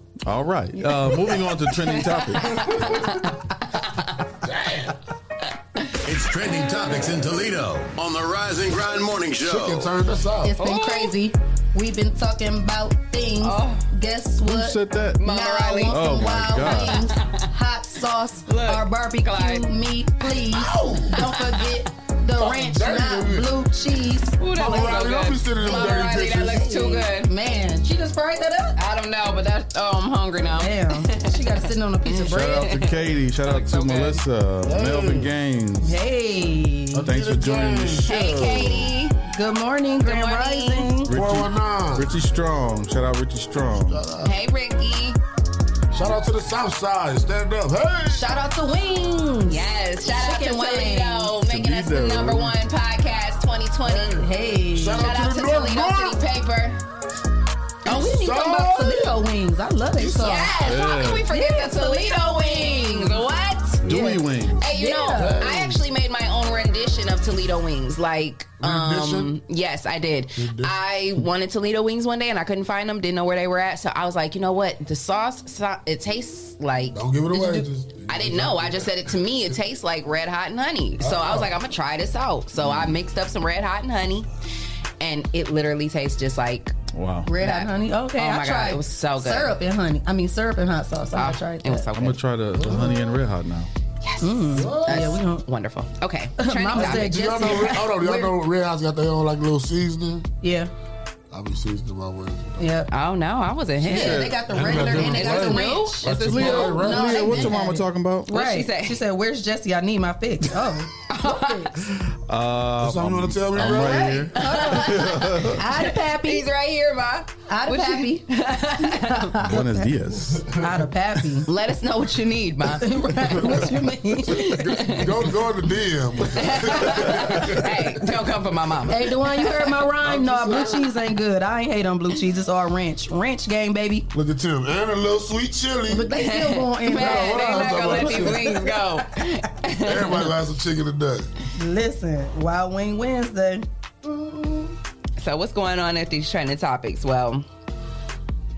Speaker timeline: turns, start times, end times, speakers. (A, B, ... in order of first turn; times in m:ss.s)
0:00.2-0:02.6 A
0:01.3-0:03.3 B
0:04.4-0:04.9 C
0:06.0-0:09.9 D
0:09.4-0:10.6 C
0:10.4-0:25.0 E
0:10.6-0:11.1 B
0:13.4-0:13.9 B
0:14.4-0:15.2 A
0:15.2-0:17.4 B
0:15.9-0:17.0 A
0:18.5-0:19.7 B
0:20.4-0:21.2 C
0:21.1-0:21.7 B
0:22.3-0:23.5 C
0:24.4-0:27.3 B
0:24.5-0:26.7 C
0:25.6-0:28.8 E
0:28.8-0:31.5 B
0:30.6-0:32.7 E
0:32.0-0:34.2 B
0:32.3-0:36.0 A
0:34.6-0:35.3 C
0:35.8-0:37.1 E
0:36.9-0:39.0 C
0:37.0-0:38.1 A
0:38.0-0:39.2 B
0:39.3-0:41.1 E
0:40.0-0:40.9 B
0:41.1-0:44.0 A
0:41.1-0:42.1 C
0:43.7-0:44.4 C
0:44.2-0:45.2 B
0:45.9-0:48.3 C
0:48.1-0:51.3 E
0:49.5-0:54.2 B
0:51.4-0:52.5 A
0:53.8-0:56.2 C
0:54.2-0:55.1 E
0:54.9-0:56.8 B
0:57.8-0:59.2 C
0:57.8-1:00.6 E
1:00.0-1:00.4 C
1:00.0-1:24.3 B
1:00.6-1:01.2 A
1:01.3-1:03.2 E
1:03.8-1:04.6 A
1:03.9-1:05.4 E
1:05.1-1:05.8 C
1:08.6-1:09.3 C
1:10.4-1:10.7 C
1:16.9-1:19.1 C
1:21.0-1:21.5 C
1:25.0-1:26.7 B
1:26.9-1:27.3 A
1:27.2-1:31.9 E
1:27.4-1:29.5 B
1:31.1-1:32.2 B
1:31.9-1:33.7 A
1:32.6-1:33.0 C
1:34.0-1:37.7 B
1:34.2-1:35.4 E
1:34.5-1:35.1 C
1:36.4-1:38.3 E
1:36.7-1:40.3 C
1:40.4-1:40.7 E
1:41.3-1:42.8 C
1:42.6-1:42.9 E
1:42.9-1:47.0 B
1:43.8-1:44.4 A
1:43.8-1:51.7 E
1:44.5-1:47.5 C
1:46.1-1:48.3 A
1:48.3-1:49.0 B
1:51.1-1:51.7 B
1:52.3-1:55.6 A
1:52.8-1:54.3 C
1:53.7-1:59.3 B
1:54.3-1:56.4 E
1:57.5-1:59.9 E
1:59.4-2:00.4 A
2:00.2-2:00.5 C
2:00.6-2:01.5 E
2:01.5-2:03.3 B
2:02.8-2:04.6 E
2:03.2-2:07.9 C
2:04.5-2:05.2 B
2:06.3-2:09.7 B
2:08.9-2:14.1 E
2:10.0-2:10.9 C
2:14.1-2:16.1 C
2:15.9-2:18.8 E
2:16.2-2:20.3 B
2:16.9-2:18.6 C
2:19.8-2:21.3 C
2:21.5-2:23.6 E
2:24.0-2:24.7 C
2:25.2-2:27.4 B